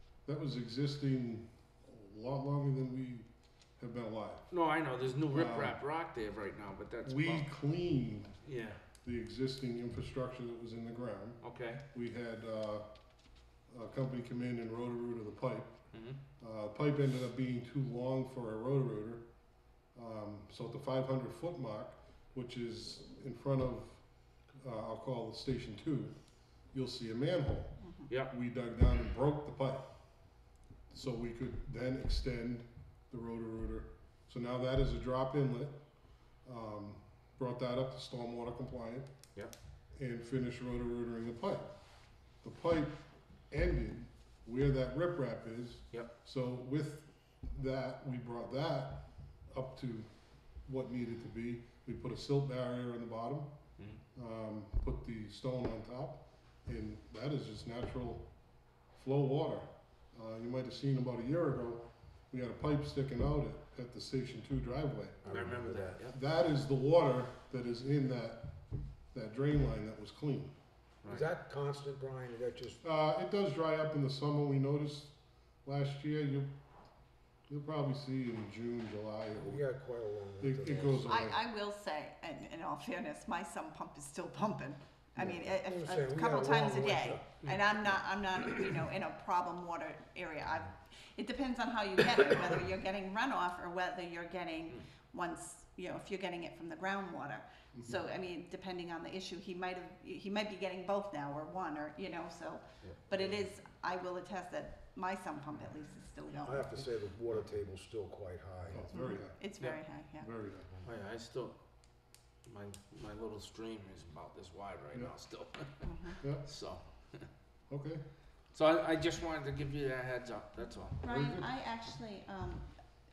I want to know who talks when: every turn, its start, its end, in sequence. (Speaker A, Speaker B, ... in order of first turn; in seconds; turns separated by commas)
Speaker A: 0.2-4.5, Speaker B: 4.5-7.5, Speaker A: 5.3-5.8, Speaker A: 7.0-8.3, Speaker B: 8.4-8.8, Speaker A: 9.0-12.9, Speaker B: 11.4-11.8, Speaker A: 13.7-19.3, Speaker B: 15.9-16.2, Speaker A: 19.9-26.1, Speaker A: 26.7-29.9, Speaker C: 27.8-28.1, Speaker A: 30.9-35.8, Speaker A: 36.4-39.1, Speaker A: 39.9-41.7, Speaker A: 42.4-50.1, Speaker A: 50.6-53.5, Speaker A: 54.1-58.3, Speaker A: 58.9-65.5, Speaker D: 65.2-66.0, Speaker B: 65.3-66.2, Speaker A: 66.0-68.5, Speaker A: 69.1-70.5, Speaker B: 71.0-71.3, Speaker D: 71.1-72.8, Speaker A: 72.8-76.5, Speaker A: 77.5-79.7, Speaker D: 79.3-81.1, Speaker A: 80.4-81.4, Speaker C: 81.1-106.7, Speaker D: 85.2-87.3, Speaker D: 106.4-108.9, Speaker A: 108.7-109.4, Speaker C: 108.9-110.3, Speaker A: 110.2-110.7, Speaker B: 110.8-111.6, Speaker B: 112.5-117.3, Speaker C: 115.8-116.2, Speaker A: 117.7-118.0, Speaker B: 118.5-121.0, Speaker C: 121.0-122.7, Speaker A: 121.0-121.5